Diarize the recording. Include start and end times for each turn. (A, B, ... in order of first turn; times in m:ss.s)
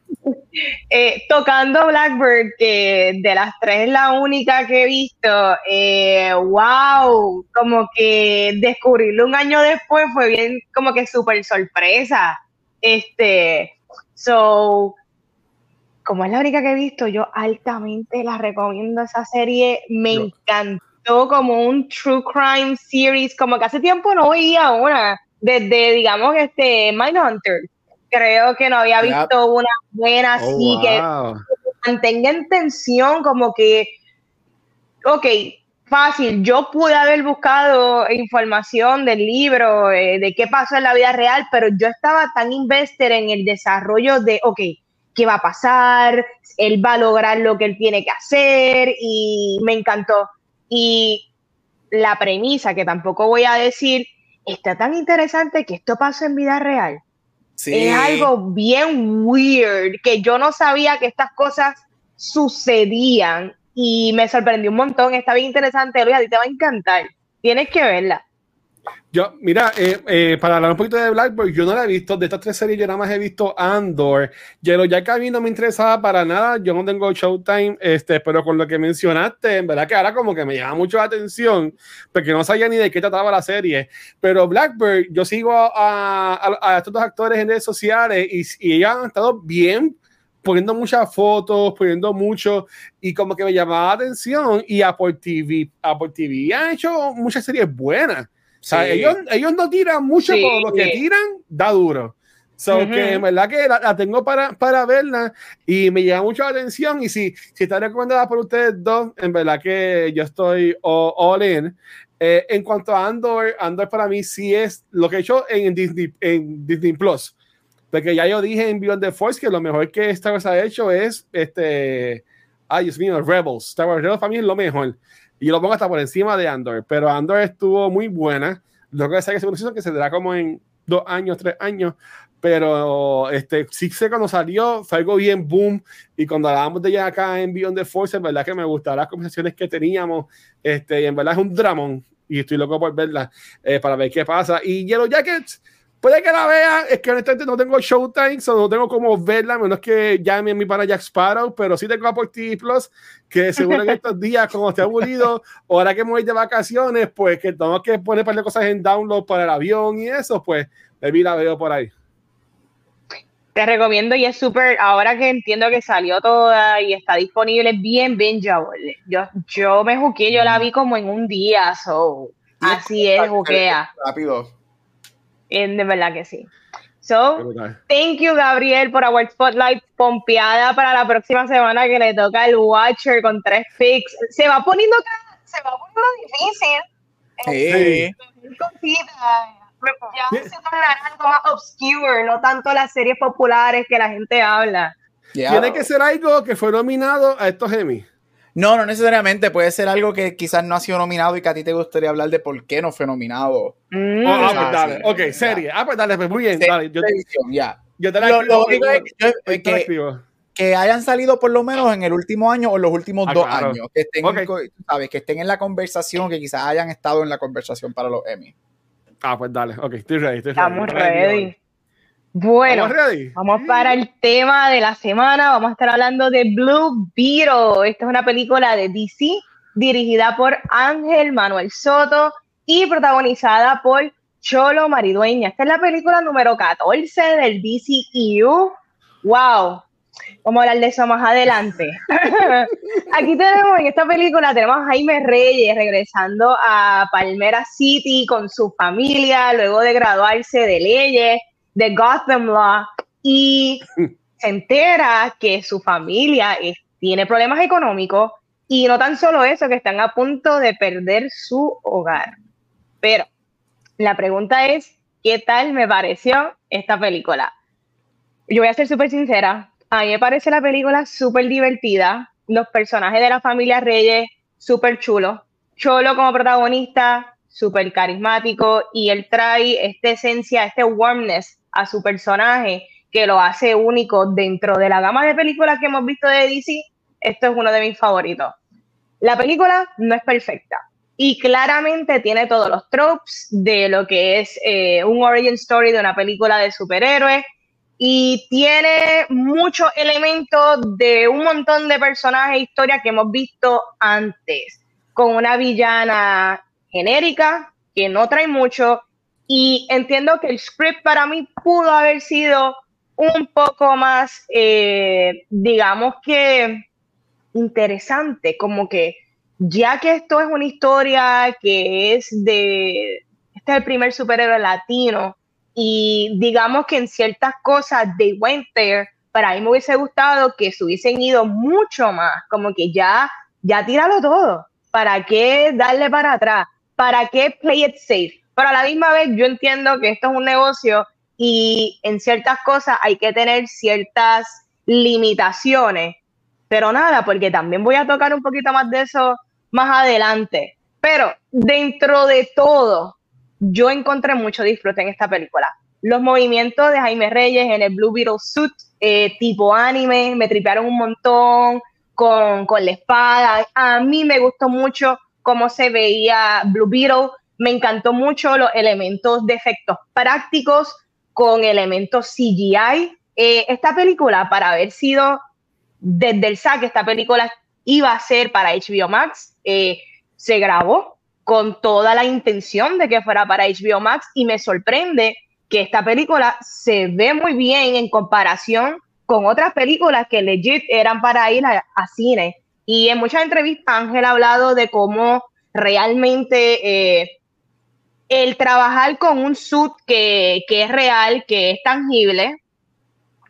0:00.3-0:15.0 A
0:16.0-0:31.0 A
0:29.0-0:29.3 B
0:30.4-0:31.4 C
0:31.8-0:33.9 A
0:35.1-0:51.3 A
0:51.9-0:57.0 A
0:57.6-0:58.3 B
0:57.7-1:08.2 A
1:09.1-1:57.3 C
1:38.6-1:39.2 B
1:40.2-1:41.0 A
1:42.7-1:43.2 A
1:57.9-2:41.9 C
2:43.6-2:53.9 A
2:52.6-2:54.5 B
2:55.5-2:56.5 A
2:57.0-3:06.8 A
2:57.4-2:57.8 C
3:07.4-3:14.9 A
3:07.5-3:08.1 B
3:07.7-3:08.1 C
3:15.3-3:15.9 B
3:15.5-3:18.0 C
3:18.6-3:25.6 B
3:23.9-3:24.7 A
3:24.2-3:27.1 C
3:26.6-3:29.9 B
3:28.0-3:30.2 C
3:30.6-3:38.5 B
3:33.3-3:34.5 C
3:39.2-3:41.5 C
3:40.6-3:41.6 A
3:42.4-3:59.8 A
3:42.7-3:43.4 C
4:00.4-4:13.8 A
4:14.4-4:22.4 A
4:23.0-4:23.3 A
4:24.0-4:27.5 A
4:28.5-4:48.6 A
4:49.2-4:57.4 A
4:58.0-5:16.8 A
5:17.5-5:46.2 A
5:46.7-6:15.4 A
6:16.0-6:37.4 A
6:38.3-6:42.6 A